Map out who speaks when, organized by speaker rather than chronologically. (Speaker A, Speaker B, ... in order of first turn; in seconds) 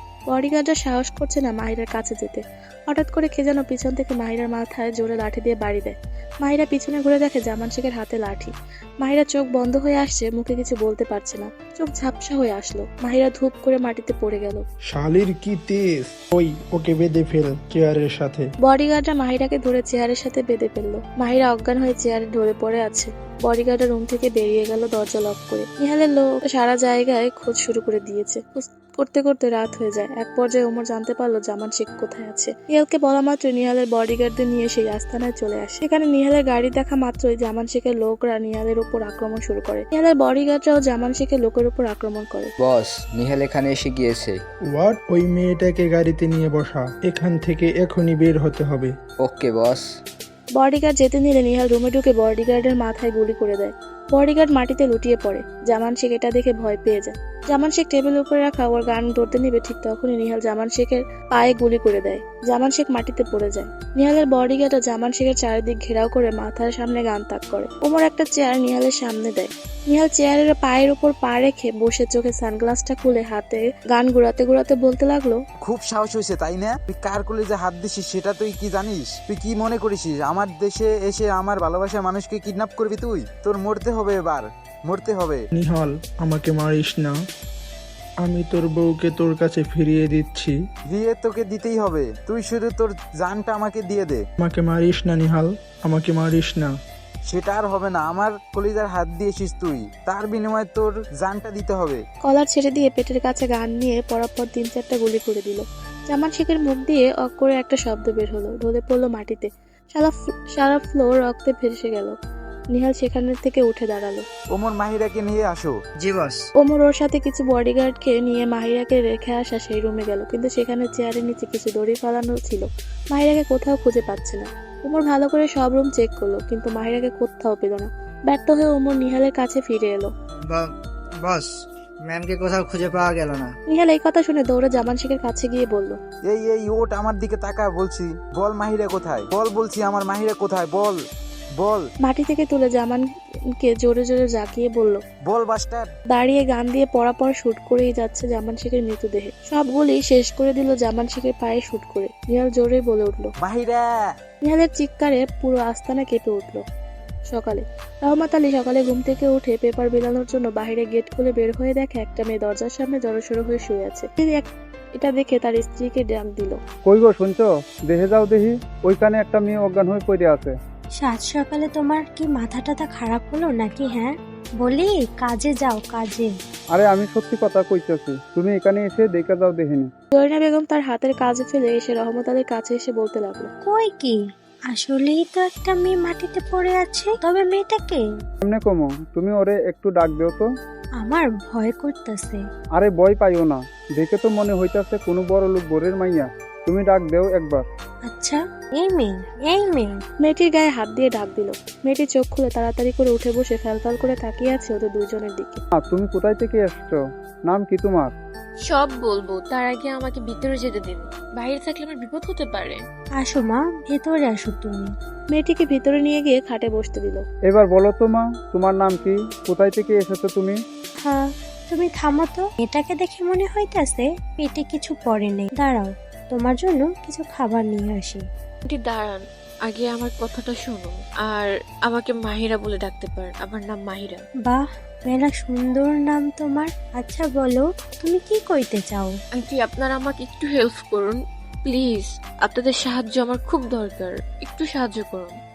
Speaker A: 0.3-14.6, 18.6-42.5, 50.6-75.4, 102.2-112.1, 112.7-114.2, 116.6-130.1, 133.7-136.0, 142.0-143.0, 143.6-145.0, 146.1-153.3, 154.4-156.6, 157.3-166.6, 180.2-183.5, 200.2-205.6, 215.3-217.2
Speaker B: 14.9-18.4, 44.7-48.9, 85.5-87.1, 88.2-90.5, 94.4-96.7
Speaker C: 42.6-44.4, 49.2-49.9
Speaker D: 75.7-85.4, 90.9-94.2, 97.3-102.0, 114.5-115.7, 136.3-141.0, 145.3-145.9, 153.4-153.8
Speaker E: 116.0-116.4, 131.2-131.5, 132.0-133.5
Speaker F: 166.8-170.5, 176.8-179.9, 188.4-190.4, 192.8-197.7, 205.8-208.1, 217.5-220.6
Speaker G: 171.0-176.3, 183.6-184.2, 184.7-188.0, 191.0-192.4, 198.1-200.0, 213.2-214.9, 221.0-228.2, 234.4-239.1
Speaker H: 208.7-212.8, 228.7-234.2, 239.4-245.3